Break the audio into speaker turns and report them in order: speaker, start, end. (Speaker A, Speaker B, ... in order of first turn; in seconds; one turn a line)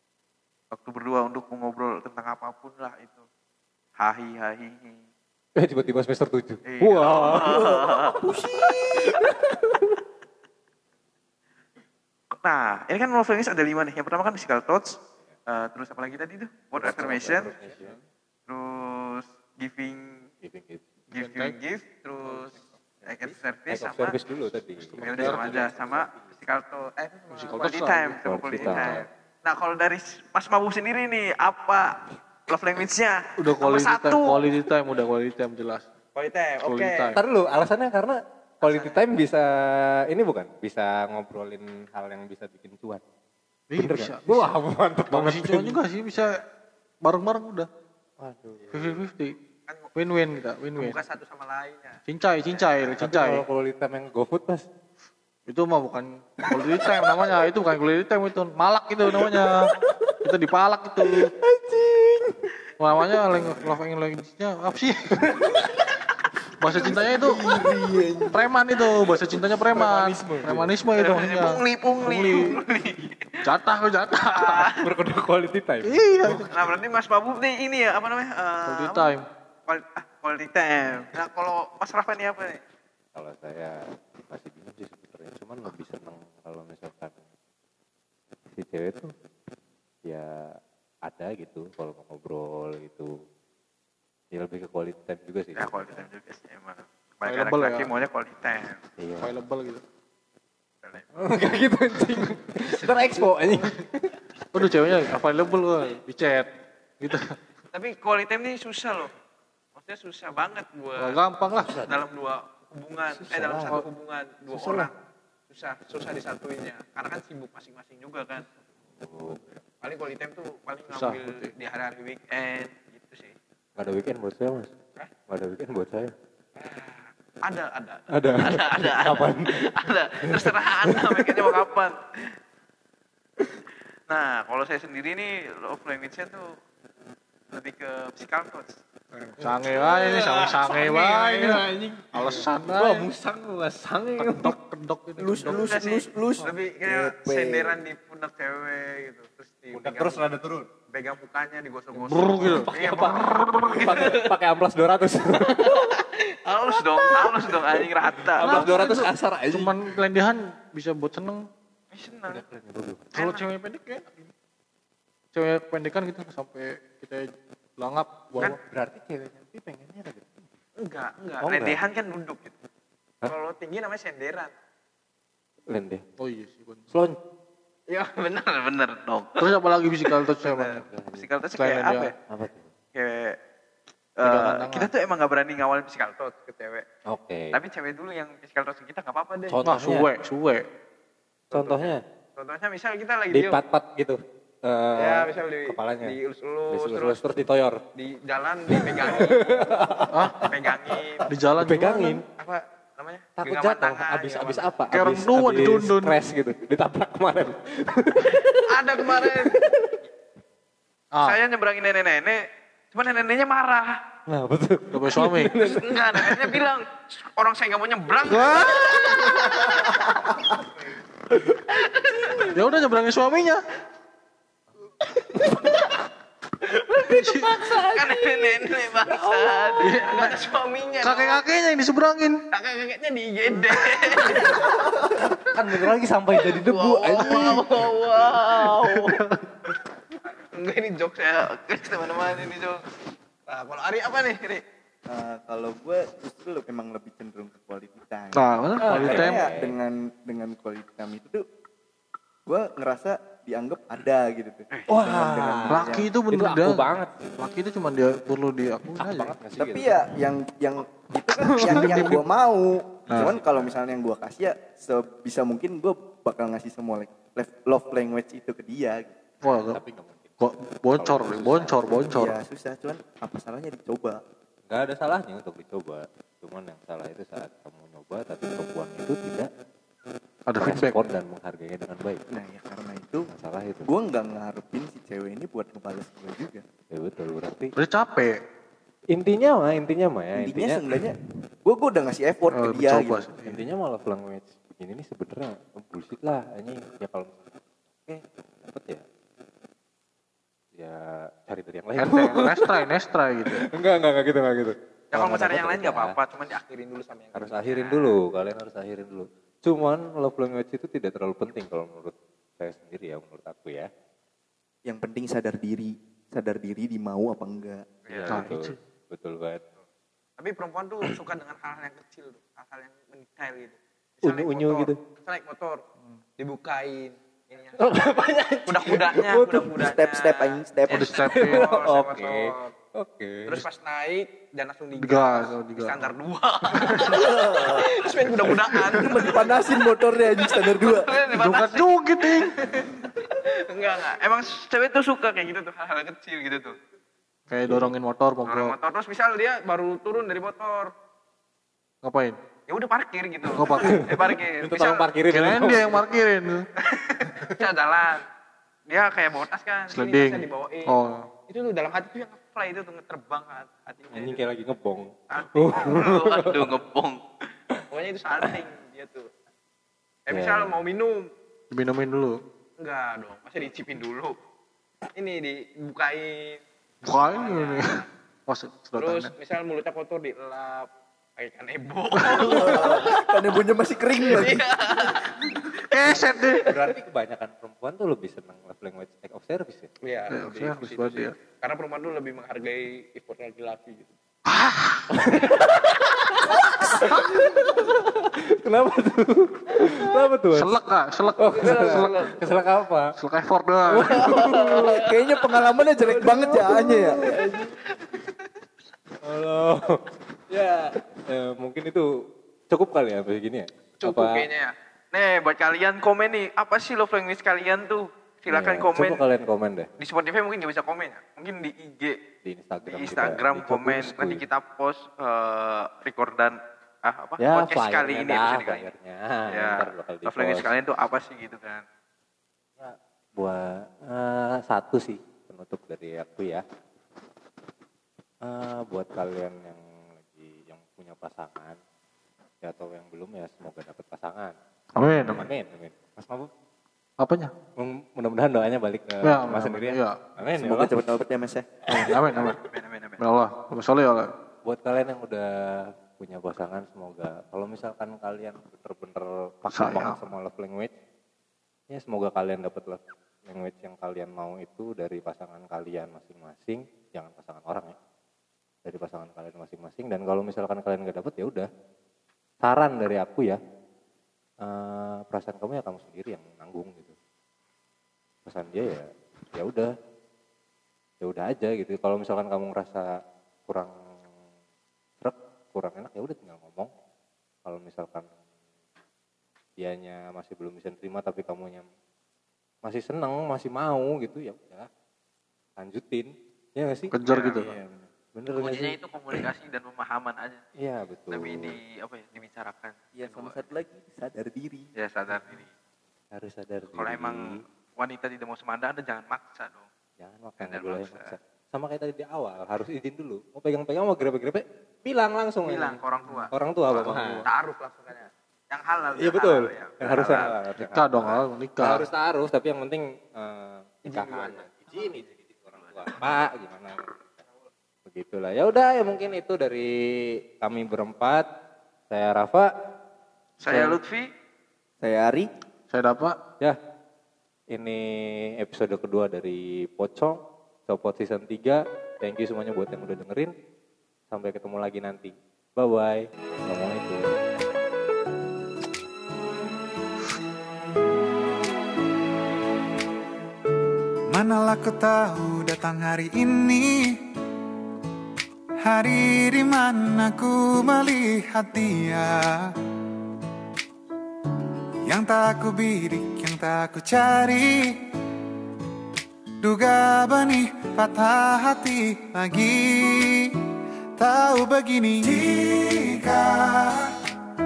Speaker A: 0.7-3.2
Speaker A: 4.0-5.0
Speaker B: 5.6-7.8
Speaker A: 6.7-9.1
Speaker C: 7.3-9.3
Speaker B: 9.0-9.9
Speaker A: 12.4-15.0
Speaker A: 15.5-17.5
Speaker B: 16.8-18.0
Speaker A: 18.5-20.3
Speaker B: 20.4-20.9
Speaker A: 21.1-24.2
Speaker D: 21.1-21.6
Speaker B: 22.2-26.3
Speaker D: 24.8-25.6
Speaker A: 25.0-34.4
Speaker D: 27.3-29.1
Speaker B: 28.2-29.1
Speaker D: 33.4-35.9
Speaker A: 36.1-37.2
Speaker D: 36.6-37.2
Speaker B: 37.1-43.0
Speaker A: 38.6-39.0
Speaker D: 43.7-44.5
Speaker B: 43.8-45.8
Speaker D: 45.1-46.4
Speaker D: 47.0-47.7
Speaker B: 48.2-49.0
Speaker D: 48.7-49.4
Speaker A: 49.7-49.9
Speaker D: 50.0-51.0
Speaker A: 50.8-52.8
Speaker D: 52.1-53.4
Speaker B: 53.0-54.7
Speaker D: 55.5-59.7
Speaker D: 60.2-61.3
Speaker B: 61.4-62.4
Speaker D: 62.8-65.2
Speaker B: 65.2-65.7
Speaker D: 66.6-67.4
Speaker B: 66.8-68.3
Speaker C: 67.2-68.1
Speaker D: 68.3-72.6
Speaker B: 69.7-70.7
Speaker A: 71.0-73.4
Speaker D: 73.4-74.7
Speaker A: 74.3-74.9
Speaker B: 74.7-76.7
Speaker D: 75.8-76.5
Speaker A: 76.3-79.2
Speaker D: 78.7-79.2
Speaker A: 79.7-82.6
Speaker B: 83.2-87.2
Speaker B: 88.5-89.1
Speaker B: 90.0-90.5
Speaker B: 91.0-93.1
Speaker B: 94.3-96.1
Speaker A: 95.6-98.8
Speaker D: 97.2-97.9
Speaker B: 99.0-99.3
Speaker D: 99.2-99.8
Speaker B: 101.2-104.2
Speaker A: 102.6-103.3
Speaker D: 104.5-106.5
Speaker D: 107.0-107.4
Speaker A: 107.7-109.1
Speaker A: 109.8-111.2
Speaker D: 111.0-111.8
Speaker B: 111.6-112.0
Speaker A: 111.8-114.9
Speaker B: 113.1-113.8
Speaker B: 114.5-114.9
Speaker A: 115.5-118.5
Speaker B: 119.0-119.6
Speaker A: 119.8-123.3
Speaker D: 120.9-121.5
Speaker B: 123.8-124.7
Speaker B: 125.3-126.1
Speaker A: 126.6-132.0
Speaker B: 128.1-131.5
Speaker A: 134.1-136.5
Speaker A: 137.5-138.8
Speaker D: 139.4-143.1
Speaker B: 139.4-144.6
Speaker D: 144.2-145.7
Speaker C: 145.2-147.8
Speaker A: 145.5-150.3
Speaker B: 149.7-150.7
Speaker A: 150.9-154.4
Speaker D: 152.0-152.7
Speaker B: 152.4-156.0
Speaker A: 155.5-158.8
Speaker B: 157.0-159.8
Speaker D: 158.4-161.4
Speaker A: 161.9-162.4
Speaker B: 162.3-163.1
Speaker A: 163.1-163.4
Speaker D: 163.2-164.3
Speaker D: 165.3-168.6
Speaker B: 168.4-170.4
Speaker A: 170.8-172.5
Speaker B: 171.4-171.8
Speaker A: 173.2-174.5
Speaker B: 175.7-176.0
Speaker D: 176.2-176.9
Speaker B: 176.9-177.2
Speaker A: 177.9-179.5
Speaker D: 179.4-180.9
Speaker A: 180.0-182.1
Speaker B: 180.9-181.3
Speaker D: 181.6-182.1
Speaker B: 182.3-182.7
Speaker A: 182.9-183.4
Speaker A: 184.2-186.8
Speaker D: 184.2-184.9
Speaker B: 187.1-187.6
Speaker A: 187.5-189.6
Speaker B: 189.5-190.1
Speaker D: 189.7-190.7
Speaker A: 191.5-193.6
Speaker B: 191.5-192.0
Speaker B: 193.3-196.2
Speaker A: 195.0-197.2
Speaker B: 196.7-197.8
Speaker A: 197.9-199.7
Speaker B: 198.7-200.6
Speaker D: 200.1-200.5
Speaker A: 200.4-201.3
Speaker B: 201.2-202.2
Speaker D: 201.2-202.2
Speaker A: 202.4-204.7
Speaker B: 203.4-209.9
Speaker D: 204.9-206.2
Speaker A: 208.2-209.6
Speaker D: 211.1-211.4
Speaker A: 211.2-212.4
Speaker A: 212.9-214.0
Speaker B: 214.3-216.6
Speaker D: 214.9-215.6
Speaker A: 215.6-220.0
Speaker D: 218.3-219.0
Speaker B: 219.2-220.2
Speaker A: 221.7-222.5
Speaker D: 222.5-223.6
Speaker A: 225.3-226.0
Speaker D: 226.9-227.7
Speaker A: 227.4-231.4
Speaker B: 229.1-229.5
Speaker D: 229.8-230.4
Speaker D: 231.0-232.4
Speaker A: 232.5-234.9
Speaker B: 234.2-237.9
Speaker A: 236.3-239.2
Speaker D: 238.6-239.4
Speaker A: 240.2-242.8
Speaker A: 243.5-244.6
Speaker C: 245.1-251.4
Speaker D: 248.3-249.4
Speaker B: 248.8-249.8
Speaker C: 252.5-256.1
Speaker B: 254.9-257.1
Speaker D: 255.7-256.9
Speaker D: 257.4-259.3
Speaker B: 259.0-260.0
Speaker C: 259.6-269.2
Speaker D: 261.4-262.2
Speaker B: 261.6-262.1
Speaker D: 263.1-263.4
Speaker B: 263.1-263.8
Speaker D: 269.4-269.8
Speaker B: 269.4-270.3
Speaker D: 270.4-272.4
Speaker B: 270.9-272.1
Speaker C: 272.1-274.2
Speaker B: 274.7-279.5
Speaker D: 280.5-281.0
Speaker B: 280.6-282.2
Speaker C: 282.3-283.3
Speaker B: 283.3-283.9
Speaker C: 283.9-286.6
Speaker B: 286.9-287.7
Speaker D: 287.8-288.4
Speaker B: 289.1-290.8
Speaker C: 290.4-293.3
Speaker D: 292.5-293.7
Speaker B: 293.4-299.0
Speaker B: 300.8-302.9
Speaker D: 302.0-303.7
Speaker B: 303.5-306.2
Speaker A: 305.1-308.2
Speaker B: 307.3-313.9
Speaker C: 314.9-317.9
Speaker A: 318.1-318.5
Speaker B: 318.1-319.6
Speaker D: 318.3-318.8
Speaker A: 320.4-325.8
Speaker B: 324.2-325.0
Speaker A: 326.4-327.9
Speaker B: 327.8-329.7
Speaker A: 328.7-332.7
Speaker C: 329.7-331.3
Speaker D: 330.9-331.8
Speaker B: 331.2-333.6
Speaker A: 333.5-346.7
Speaker D: 335.0-336.1
Speaker D: 336.8-337.1
Speaker C: 336.9-337.9
Speaker C: 338.7-341.1
Speaker D: 341.3-342.5
Speaker D: 347.5-348.8
Speaker A: 348.5-350.9
Speaker D: 352.0-352.4
Speaker A: 352.7-355.1
Speaker D: 353.5-354.1
Speaker B: 353.7-356.0
Speaker D: 355.3-356.6
Speaker A: 356.8-358.2
Speaker A: 358.9-364.4
Speaker D: 359.9-361.3
Speaker B: 364.1-366.7
Speaker A: 365.3-367.2
Speaker A: 367.9-369.3
Speaker B: 368.4-368.6
Speaker A: 370.3-371.3
Speaker B: 370.3-370.8
Speaker D: 371.7-372.4
Speaker A: 372.8-374.4
Speaker A: 375.1-376.6
Speaker D: 377.0-379.3
Speaker A: 377.3-378.1
Speaker A: 379.0-383.3
Speaker C: 382.2-384.7
Speaker A: 384.2-386.6
Speaker D: 385.8-386.8
Speaker B: 386.6-389.9
Speaker A: 390.0-394.1
Speaker D: 390.3-391.4
Speaker D: 394.5-395.1
Speaker B: 395.1-400.8
Speaker A: 399.7-400.0
Speaker D: 400.5-402.3
Speaker B: 401.4-403.1
Speaker A: 401.6-402.4
Speaker D: 403.2-404.5
Speaker B: 403.9-405.0
Speaker A: 404.1-405.3
Speaker C: 404.2-407.3
Speaker B: 405.9-407.8
Speaker B: 409.2-412.1
Speaker B: 412.7-414.5
Speaker A: 414.0-419.2
Speaker B: 418.5-419.9
Speaker A: 420.0-422.2
Speaker B: 422.4-424.4
Speaker A: 422.8-428.9
Speaker B: 427.4-430.7
Speaker A: 429.5-431.8
Speaker B: 432.8-436.6
Speaker B: 438.4-441.8
Speaker B: 442.6-444.6
Speaker D: 445.0-445.5
Speaker B: 445.1-446.5
Speaker D: 447.2-447.5
Speaker B: 447.8-450.9
Speaker D: 449.2-450.2
Speaker C: 450.6-451.7
Speaker D: 451.9-452.6
Speaker A: 452.3-453.2
Speaker D: 453.2-454.3
Speaker B: 454.6-460.9
Speaker D: 459.7-460.2
Speaker B: 461.9-467.9
Speaker B: 468.9-471.7
Speaker B: 472.6-473.6
Speaker B: 474.6-477.1
Speaker B: 478.4-479.9
Speaker B: 481.2-483.1
Speaker B: 485.2-486.9
Speaker B: 487.6-488.3
Speaker B: 489.8-491.9
Speaker B: 492.8-494.9
Speaker B: 495.8-499.4
Speaker D: 497.1-497.7
Speaker A: 497.3-497.8
Speaker A: 498.6-500.6
Speaker B: 500.8-501.8
Speaker A: 501.3-503.7
Speaker C: 503.1-504.9
Speaker A: 505.0-505.7
Speaker B: 506.3-507.6
Speaker A: 507.0-509.9
Speaker B: 510.2-516.0
Speaker A: 510.6-511.4
Speaker A: 515.6-520.5
Speaker B: 516.5-517.5
Speaker D: 517.0-517.5
Speaker B: 519.2-527.0
Speaker D: 520.8-522.1
Speaker A: 524.0-526.2
Speaker B: 528.1-531.5
Speaker B: 532.1-532.7
Speaker A: 533.6-534.3
Speaker B: 533.7-534.0
Speaker C: 535.0-535.5
Speaker D: 535.9-536.4
Speaker B: 537.7-543.5
Speaker B: 544.3-547.3
Speaker E: 554.3-557.2
Speaker E: 558.8-562.7
Speaker E: 565.1-568.0
Speaker E: 569.6-573.6
Speaker E: 574.2-577.1